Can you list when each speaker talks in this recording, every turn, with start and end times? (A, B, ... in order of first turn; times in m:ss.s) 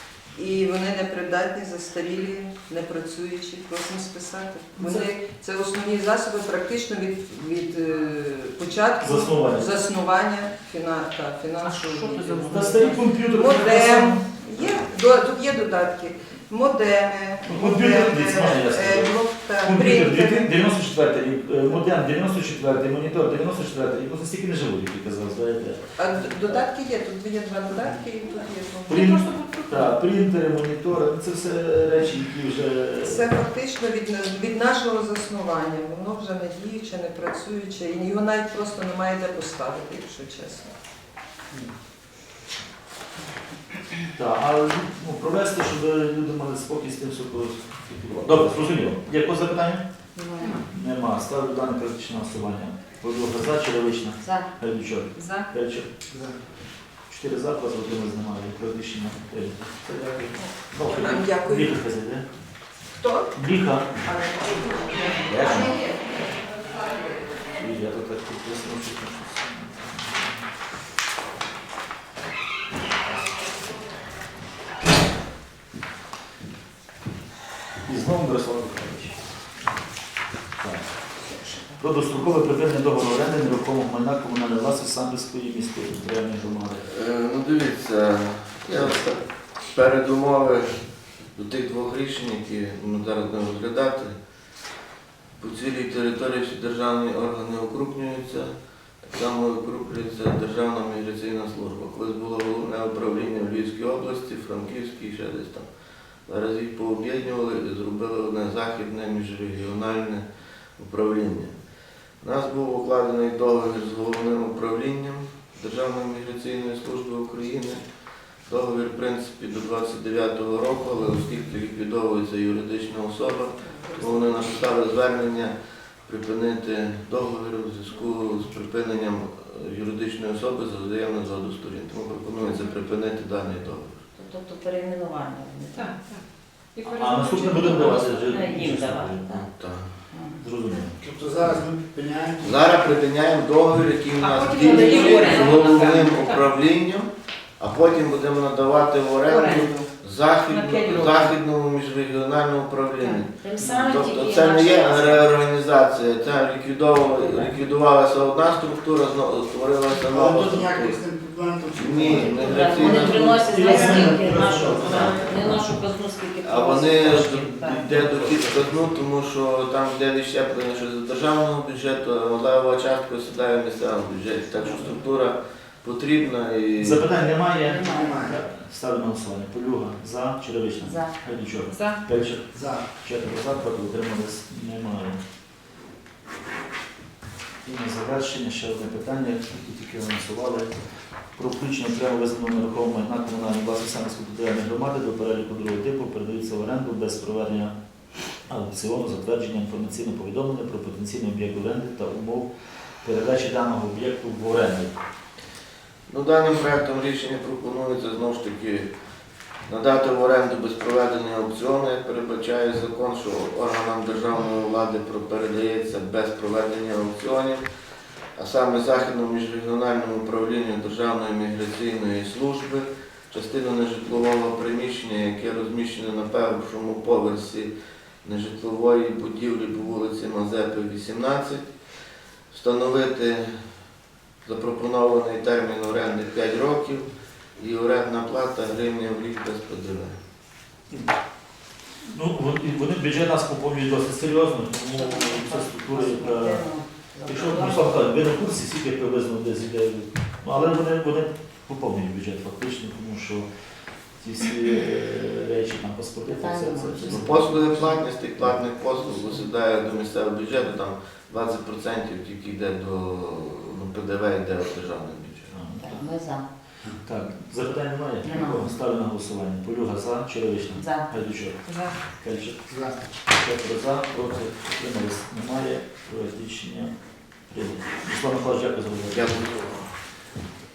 0:00.3-0:20.6 A
0:04.8-0:05.1 B
0:09.0-0:09.7 B
0:11.6-0:13.2 C
0:12.5-0:14.8 B
0:17.4-0:26.6 B
0:26.0-0:29.8 A
0:28.9-0:29.6 C
0:28.9-0:33.3 B
0:33.0-0:40.7 A
0:44.1-0:49.8 B
0:50.1-0:50.6 D
0:50.4-0:50.7 C
0:50.7-0:55.9 B
0:54.2-0:54.5 D
0:55.1-0:55.5 C
0:56.1-0:56.4 E
0:57.1-1:02.3 B
1:00.7-1:01.8 A
1:03.0-1:03.3 A
1:03.3-1:03.9 B
1:04.0-1:05.9 A
1:05.2-1:05.8 B
1:07.6-1:10.4 B
1:17.8-1:19.3 B
1:20.6-1:26.8 B
1:21.2-1:21.8 C
1:26.8-1:30.8 F
1:31.3-1:34.1 F
1:35.4-1:45.7 F
1:46.3-1:50.2 F
1:50.8-1:51.5 F
1:52.2-1:57.8 F
1:58.4-2:05.5 F
2:03.6-2:04.5 C
2:06.0-2:14.0 F
2:12.4-2:12.7 C
2:14.2-2:16.0 D
2:15.7-2:18.1 C
2:16.9-2:19.2 B
2:17.2-2:19.4 D
2:19.3-2:19.9 F
2:20.1-2:20.4 D
2:20.4-2:21.0 B
2:21.0-2:22.6 E
2:22.4-2:41.0 F
2:24.2-2:26.4 C
2:24.3-2:26.4 D
2:33.0-2:35.2 D
2:37.2-2:37.5 D
2:40.0-2:45.2 E
2:41.7-2:43.9 F
2:42.1-2:47.9 D
2:43.0-2:45.6 B
2:46.4-2:57.0 F
2:47.1-2:48.9 B
2:54.6-2:55.0 D
2:56.8-3:05.2 B
2:57.6-2:58.2 D
2:57.8-2:58.4 E
3:00.8-3:01.1 D
3:01.7-3:02.0 C
3:02.5-3:02.8 E
3:07.6-3:10.7 B
3:11.3-3:17.8 B
3:18.4-3:22.5 B
3:23.0-3:25.0 B
3:26.1-3:28.9 F
3:29.7-3:37.6 F
3:38.4-3:47.7 F
3:48.2-3:51.7 F
3:52.5-3:53.6 F
3:54.4-3:57.0 F
3:57.6-4:00.2 F
4:02.1-4:13.5 B
4:04.9-4:08.0 D
4:14.1-4:17.7 B
4:16.3-4:18.0 D
4:17.1-4:25.5 F
4:25.5-4:26.1 B
4:25.8-4:26.5 D
4:27.0-4:32.7 B
4:28.2-4:28.7 D
4:30.8-4:31.0 D
4:31.6-4:32.0 C
4:32.7-4:32.9 E
4:33.3-4:36.9 B
4:37.5-4:39.3 B
4:39.1-4:39.9 F